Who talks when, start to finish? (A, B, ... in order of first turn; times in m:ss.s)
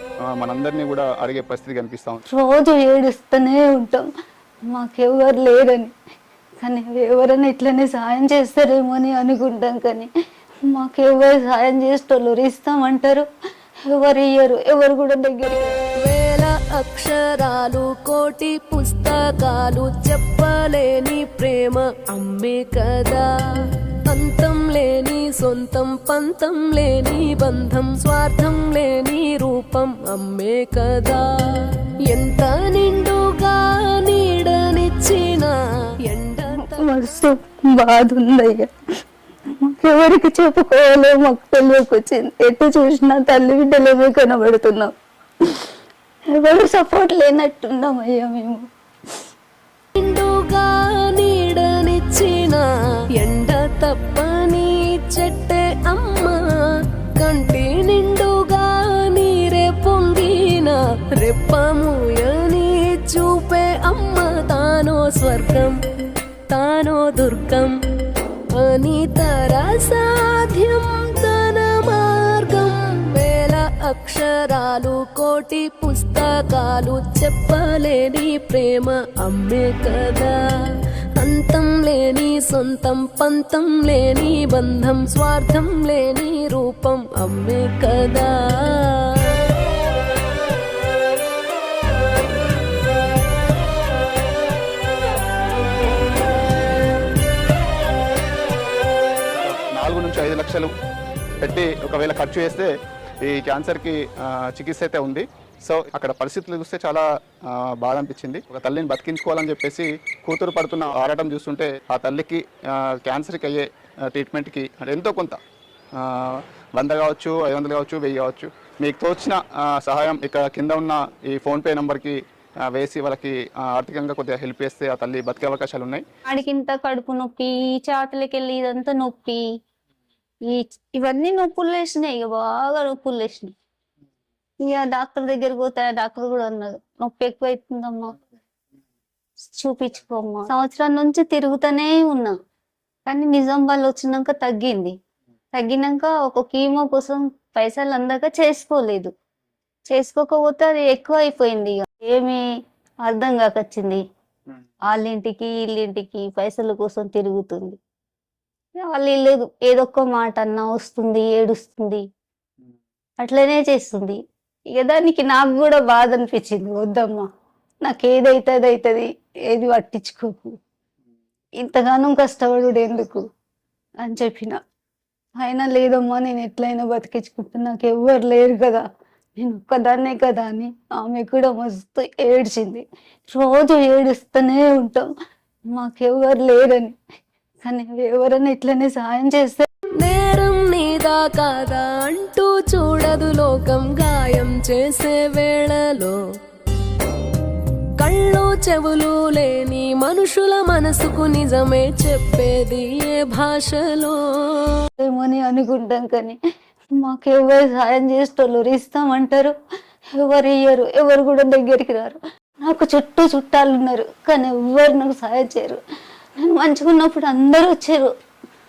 0:00.3-0:02.2 A
0:02.3-0:04.1 B
0:04.7-0:05.9 B
0:06.6-0:10.1 B
0:10.7-0:13.3 B
0:13.8-0:15.8 B
0:16.0-0:35.6 C
0:36.1-0:36.9 C
0:36.5-0:38.7 B
0:39.5-0:44.9 B
0:46.3-0:48.6 B
0:50.0-0:52.6 C
0:53.2-0:56.4 C
0:57.2-1:05.8 C
1:06.5-1:07.8 C
1:08.5-1:29.5 C
1:39.3-1:40.7 A
1:41.4-1:55.4 A
1:56.0-2:06.0 A
2:06.3-2:09.4 B
2:10.5-2:13.5 B
2:14.6-2:18.2 B
2:19.4-2:22.3 B
2:23.1-2:25.0 B
2:25.5-2:29.1 B
2:29.9-2:32.4 B
2:33.0-2:34.0 B
2:34.9-2:37.8 B
2:38.8-2:42.0 B
2:43.2-2:44.2 B
2:44.7-2:47.3 B
2:47.8-2:50.6 B
2:51.6-2:53.2 B
2:54.0-2:54.6 B
2:55.4-2:58.8 B
2:59.4-3:05.1 B
3:05.7-3:07.0 B
3:07.6-3:09.7 B
3:10.0-3:16.2 C
3:18.0-3:24.9 C
3:25.0-3:26.4 B
3:27.0-3:29.6 B
3:30.1-3:35.8 B
3:36.4-3:38.1 B